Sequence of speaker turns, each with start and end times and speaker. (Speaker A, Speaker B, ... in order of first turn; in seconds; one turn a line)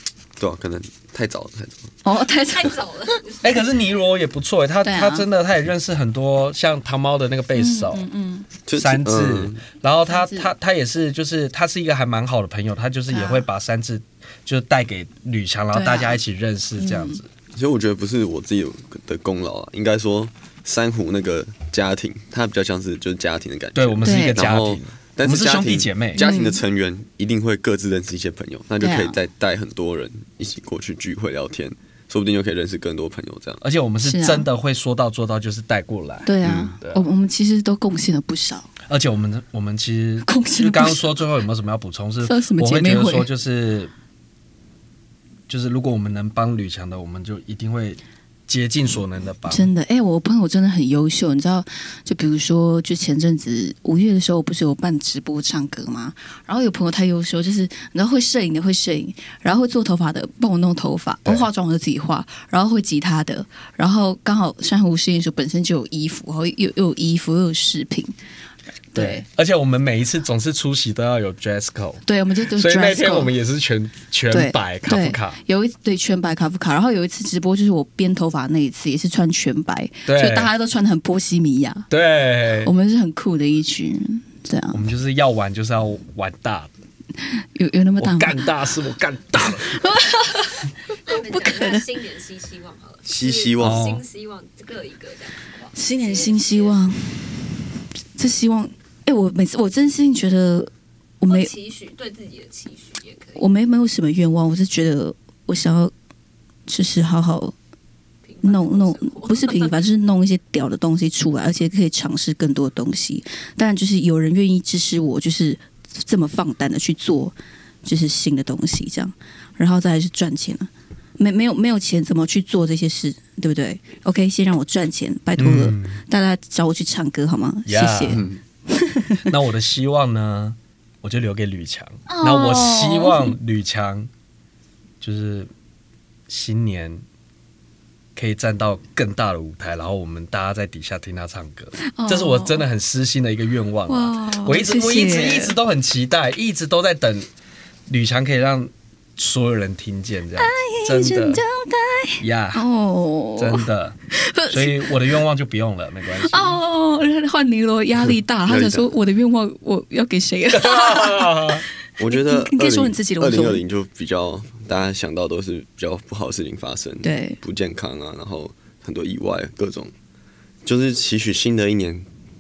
Speaker A: 0.4-1.9
Speaker B: 2.0-3.2
Speaker C: 2.5-3.6
Speaker D: 3.4-8.1
Speaker B: 4.8-5.3
Speaker B: 7.5-8.5
Speaker A: 8.7-9.6
Speaker D: 8.7-17.3
Speaker B: 10.1-10.5
Speaker B: 13.1-13.4
Speaker B: 15.7-16.2
Speaker B: 16.8-17.2
Speaker A: 17.5-33.6
Speaker D: 23.7-26.3
Speaker B: 24.0-24.4
Speaker B: 26.2-26.6
Speaker B: 28.8-29.2
Speaker D: 33.6-37.0
Speaker B: 34.0-34.5
Speaker B: 36.2-38.7
Speaker A: 36.4-36.7
Speaker D: 38.9-43.9
Speaker B: 40.2-41.1
Speaker B: 42.2-43.3
Speaker D: 45.5-49.7
Speaker B: 49.5-68.1
Speaker B: 68.9-69.2
Speaker D: 69.0-75.4
Speaker B: 72.0-73.3
Speaker B: 74.3-81.9
Speaker D: 80.0-80.5
Speaker D: 81.9-82.7
Speaker B: 82.6-84.8
Speaker D: 84.7-86.7
Speaker B: 87.3-88.5
Speaker D: 88.0-89.8
Speaker B: 89.4-91.8
Speaker C: 90.9-96.8
Speaker A: 93.1-93.8
Speaker D: 93.6-94.0
Speaker B: 95.7-97.5
Speaker B: 98.2-101.5
Speaker C: 101.3-103.5
Speaker B: 103.4-105.9
Speaker B: 106.7-107.5
Speaker C: 108.2-109.8
Speaker B: 108.4-129.2
Speaker D: 125.4-126.0
Speaker D: 127.7-128.3
Speaker A: 128.1-128.4
Speaker D: 129.3-134.1
Speaker B: 132.1-133.3
Speaker D: 135.0-135.5
Speaker D: 136.3-137.0
Speaker D: 138.2-147.3
Speaker B: 141.8-142.7
Speaker B: 143.9-145.6
Speaker D: 147.9-151.4
Speaker B: 150.4-154.9
Speaker D: 152.2-152.6
Speaker D: 153.4-154.0
Speaker D: 154.5-156.6
Speaker B: 156.2-163.6
Speaker A: 158.5-158.9
Speaker D: 160.5-161.6
Speaker A: 162.0-169.9
Speaker B: 167.0-167.4
Speaker A: 170.6-172.1